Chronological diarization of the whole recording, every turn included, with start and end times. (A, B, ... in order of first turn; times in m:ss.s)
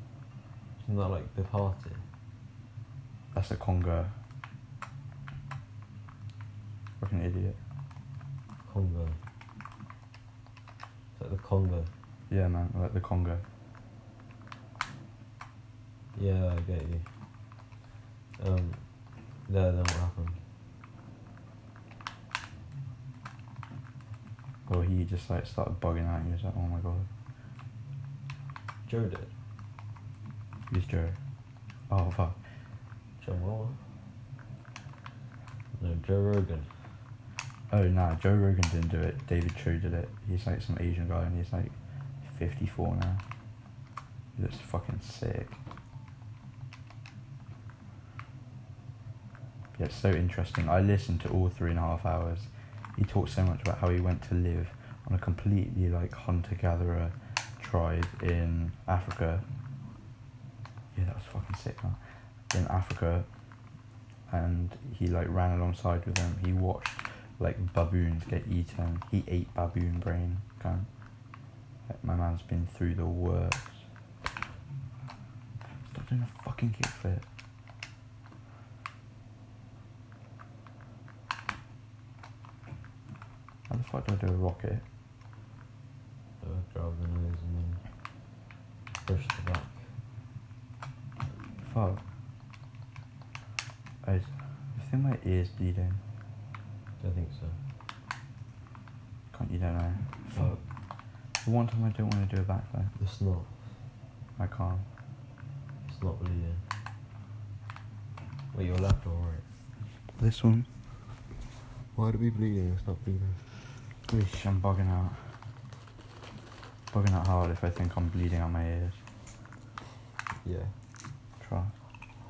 0:00.8-0:02.1 A
0:03.3-0:04.2 B
0:07.0-0:07.6 B
0:08.6-0:09.2 A
0:11.1-0:11.9 A
0:12.3-0:13.4 B
0:16.2-0:17.1 A
0:18.4-0:18.9 A
0:19.5-0:20.4 A
0:24.7-0:27.1 B
0:28.9-0:29.3 A
0:30.7-0:31.2 B
0:31.9-0:32.4 B
0:33.2-0:33.8 A
0:35.8-0:36.7 A
0:37.7-0:43.2 B
0:44.4-0:45.6 B
0:49.8-0:59.4 B
1:01.0-1:02.0 B
1:02.5-1:03.3 B
1:04.3-1:10.9 B
1:11.9-1:13.9 B
1:15.7-1:17.2 B
1:23.7-1:24.8 B
1:26.4-1:27.9 A
1:29.0-1:29.9 A
1:31.6-1:32.0 B
1:34.0-1:36.0 B
1:37.0-1:37.6 A
1:39.3-1:40.6 B
1:41.4-1:42.9 B
1:43.0-1:43.7 A
1:44.4-1:44.9 B
1:45.9-1:46.7 A
1:48.5-1:49.5 A
1:50.2-1:50.7 B
1:52.0-1:53.5 A
1:54.1-1:55.4 B
1:56.9-1:59.0 B
2:00.4-2:00.8 A
2:01.4-2:01.7 B